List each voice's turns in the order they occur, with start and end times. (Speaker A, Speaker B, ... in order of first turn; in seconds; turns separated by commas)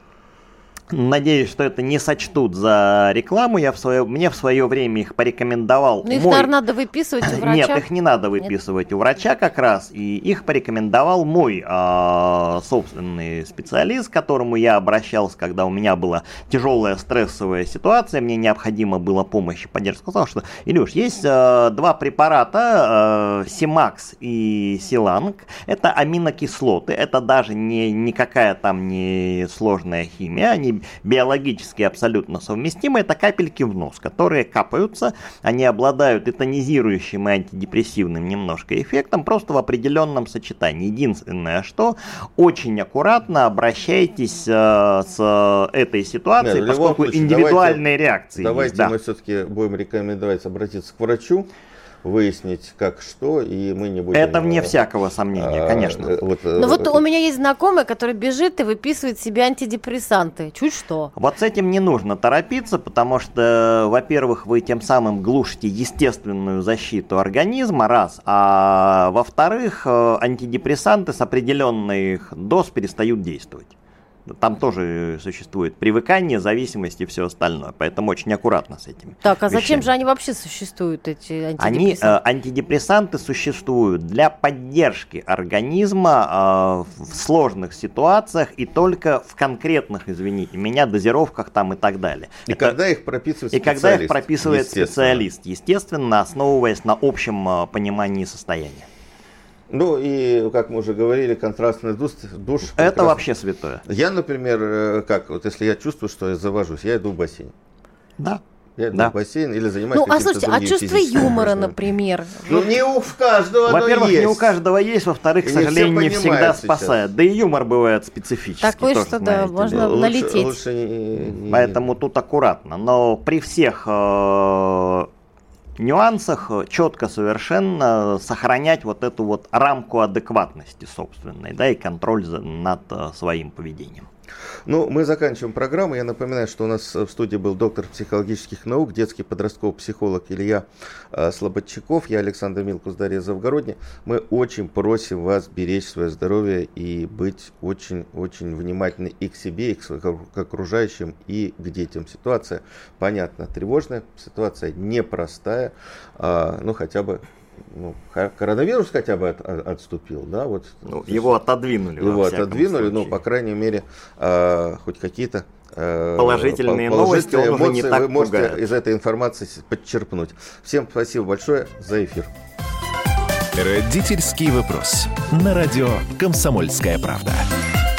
Speaker A: 0.9-6.5, Speaker B: 6.0-7.8, Speaker A: 7.2-48.9, Speaker C: 46.4-51.5, Speaker C: 52.0-54.8, Speaker A: 54.1-56.2, Speaker C: 55.4-57.0, Speaker B: 56.6-61.1, Speaker A: 61.2-73.7, Speaker A: 74.3-79.9, Speaker B: 79.2-82.2, Speaker A: 81.6-92.8, Speaker C: 92.5-95.3, Speaker A: 93.5-98.9, Speaker C: 99.7-103.2, Speaker A: 102.8-103.8, Speaker C: 103.8-107.5, Speaker C: 108.8-111.8, Speaker B: 109.9-112.7, Speaker C: 112.5-114.6, Speaker A: 113.7-119.9, Speaker C: 115.4-117.1, Speaker B: 118.6-120.6, Speaker C: 119.7-122.0, Speaker A: 121.5-125.1, Speaker A: 125.8-134.1, Speaker C: 134.7-161.4, Speaker A: 160.9-163.2, Speaker C: 162.0-172.3, Speaker A: 166.2-168.7, Speaker D: 173.6-177.5